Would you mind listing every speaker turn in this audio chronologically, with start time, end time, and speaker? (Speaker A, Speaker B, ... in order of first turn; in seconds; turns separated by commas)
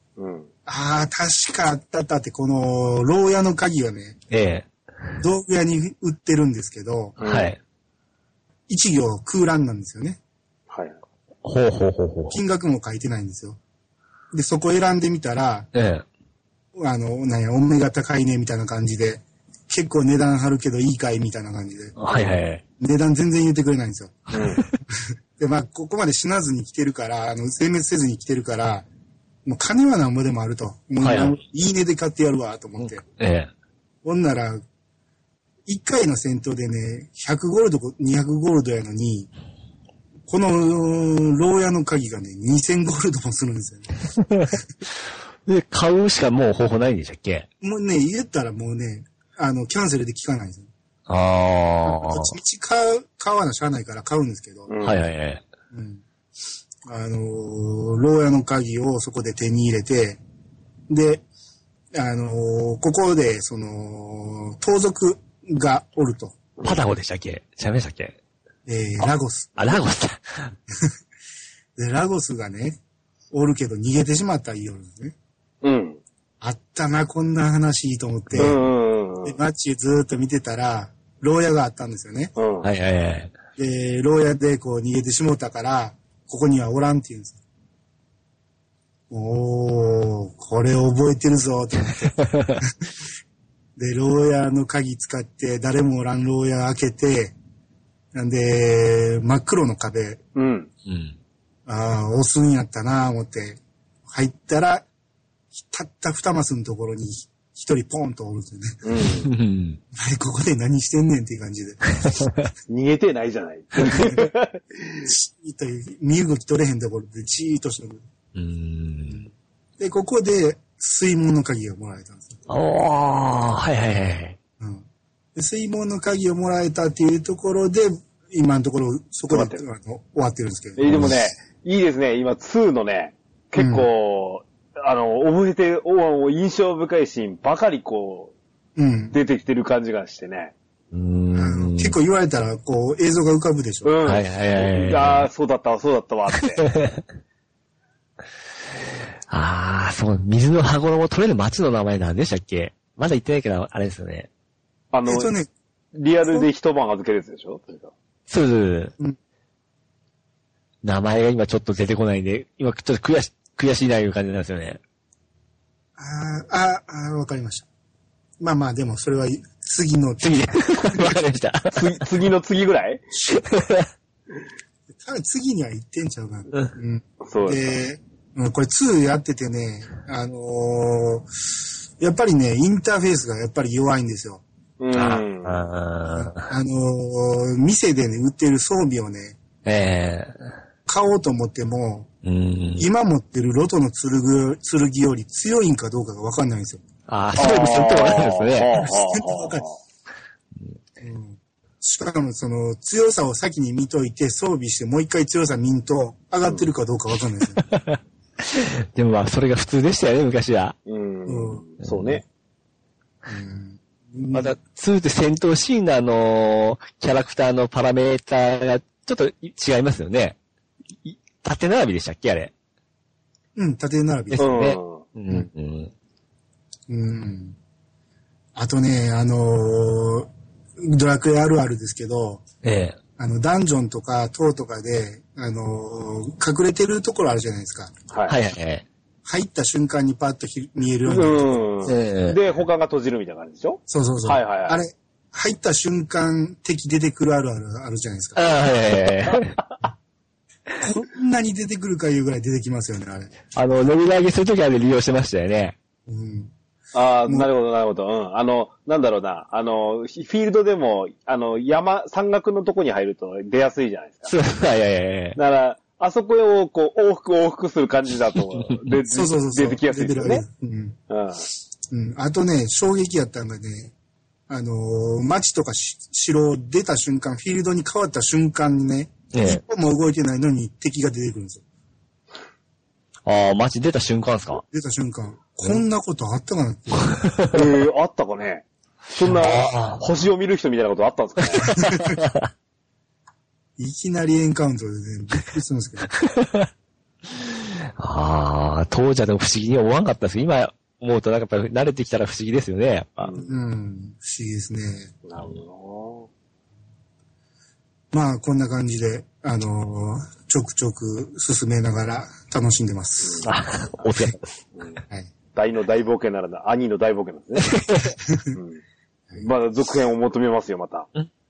Speaker A: 0.2-0.5, Speaker B: 0.7-4.2, Speaker C: 4.3-4.7, Speaker B: 5.2-7.2, Speaker A: 7.2-7.5, Speaker C: 7.2-7.6, Speaker B: 8.7-10.2, Speaker A: 10.7-11.0, Speaker C: 11.4-12.4, Speaker B: 12.3-13.6, Speaker B: 14.3-15.7, Speaker C: 15.8-16.0, Speaker B: 16.8-24.3, Speaker C: 22.0-22.6, Speaker A: 24.3-24.6, Speaker C: 24.3-24.7, Speaker B: 25.4-28.9, Speaker B: 29.4-33.0, Speaker C: 31.0-31.4, Speaker C: 33.0-33.5, Speaker B: 34.0-34.6, Speaker B: 35.6-39.3, Speaker B: 40.3-44.0, Speaker C: 45.5-47.5, Speaker B: 47.6-50.7, Speaker C: 51.1-52.4, Speaker B: 51.9-54.7, Speaker A: 54.7-55.0, Speaker C: 54.8-55.4, Speaker B: 55.7-56.0, Speaker B: 56.9-60.2, Speaker B: 60.9-61.2, Speaker B: 61.9-66.4, Speaker A: 66.6-66.8, Speaker C: 66.6-68.2, Speaker B: 68.7-69.8, Speaker C: 69.6-70.5, Speaker B: 71.8-72.8, Speaker B: 73.3-75.1, Speaker A: 75.6-76.0, Speaker B: 76.4-78.6, Speaker A: 78.4-79.4, Speaker B: 79.2-82.3, Speaker A: 82.4-82.7, Speaker C: 82.6-83.3, Speaker B: 83.5-87.4, Speaker B: 89.1-92.7, Speaker C: 92.2-92.6, Speaker B: 93.8-97.3, Speaker B: 98.1-100.2, Speaker A: 100.4-100.7, Speaker C: 100.9-101.2, Speaker B: 101.7-104.9, Speaker B: 105.5-108.8, Speaker A: 108.8-109.3, Speaker C: 109.2-109.8, Speaker B: 109.9-112.3, Speaker A: 112.7-115.1, Speaker B: 113.9-114.3, Speaker B: 115.0-118.0, Speaker C: 118.3-119.2, Speaker B: 119.8-122.4, Speaker C: 122.5-124.4, Speaker B: 124.6-131.1, Speaker A: 129.3-129.6, Speaker A: 130.8-138.3, Speaker C: 130.9-131.1, Speaker B: 133.6-133.9, Speaker B: 138.8-139.2, Speaker A: 139.1-140.5, Speaker C: 140.9-141.9, Speaker B: 141.3-143.9, Speaker A: 143.8-146.7, Speaker C: 144.0-145.3, Speaker C: 146.6-147.0, Speaker C: 149.3-154.3, Speaker A: 154.9-155.3, Speaker B: 155.1-155.5, Speaker A: 155.9-157.9, Speaker C: 158.3-158.9, Speaker C: 160.8-164.8, Speaker B: 166.0-167.7, Speaker B: 168.4-171.1, Speaker C: 170.2-172.0, Speaker A: 171.7-173.0, Speaker C: 173.3-173.9, Speaker B: 175.0-181.3, Speaker A: 177.2-177.7, Speaker B: 182.0-184.4, Speaker A: 184.8-185.7, Speaker C: 184.9-186.4, Speaker B: 186.1-189.4, Speaker C: 189.6-190.4, Speaker B: 190.9-192.1, Speaker C: 192.2-192.9, Speaker B: 192.8-196.8, Speaker C: 197.1-198.7, Speaker A: 197.4-199.8, Speaker B: 198.8-199.7, Speaker B: 201.0-207.6, Speaker A: 206.4-206.7, Speaker C: 207.6-210.8, Speaker A: 210.9-212.2, Speaker B: 211.3-211.6, Speaker B: 213.3-214.6, Speaker C: 214.3-220.4, Speaker C: 221.0-222.5, Speaker B: 223.6-224.5, Speaker C: 224.3-225.9, Speaker A: 224.4-225.0, Speaker B: 226.9-227.6, Speaker B: 228.6-230.3, Speaker B: 230.8-232.4, Speaker C: 232.6-233.0, Speaker B: 233.2-237.9, Speaker A: 238.1-238.4, Speaker C: 238.3-238.8, Speaker B: 239.2-241.7, Speaker A: 241.0-244.8, Speaker C: 241.9-242.4, Speaker B: 243.9-248.5, Speaker C: 248.4-249.6, Speaker B: 250.8-253.3, Speaker C: 253.5-255.8, Speaker B: 256.1-256.5, Speaker A: 256.9-264.3, Speaker C: 264.2-265.4, Speaker A: 265.4-270.4, Speaker B: 269.1-271.0, Speaker A: 271.1-271.4, Speaker B: 271.9-273.9, Speaker B: 274.5-281.6, Speaker C: 279.3-279.6, Speaker C: 283.2-284.6, Speaker B: 284.7-287.2, Speaker C: 287.2-287.5, Speaker A: 287.5-291.7, Speaker C: 289.3-290.0, Speaker C: 291.4-292.5, Speaker B: 291.6-292.2, Speaker B: 293.8-296.1, Speaker C: 296.2-296.7, Speaker C: 298.0-303.4, Speaker A: 303.2-303.5, Speaker B: 303.4-305.1, Speaker A: 305.3-306.3, Speaker B: 308.1-313.5, Speaker A: 313.2-313.5, Speaker C: 313.4-314.5, Speaker A: 314.8-315.0, Speaker A: 315.5-317.7, Speaker C: 317.7-318.1, Speaker A: 318.5-318.8, Speaker A: 319.4-321.1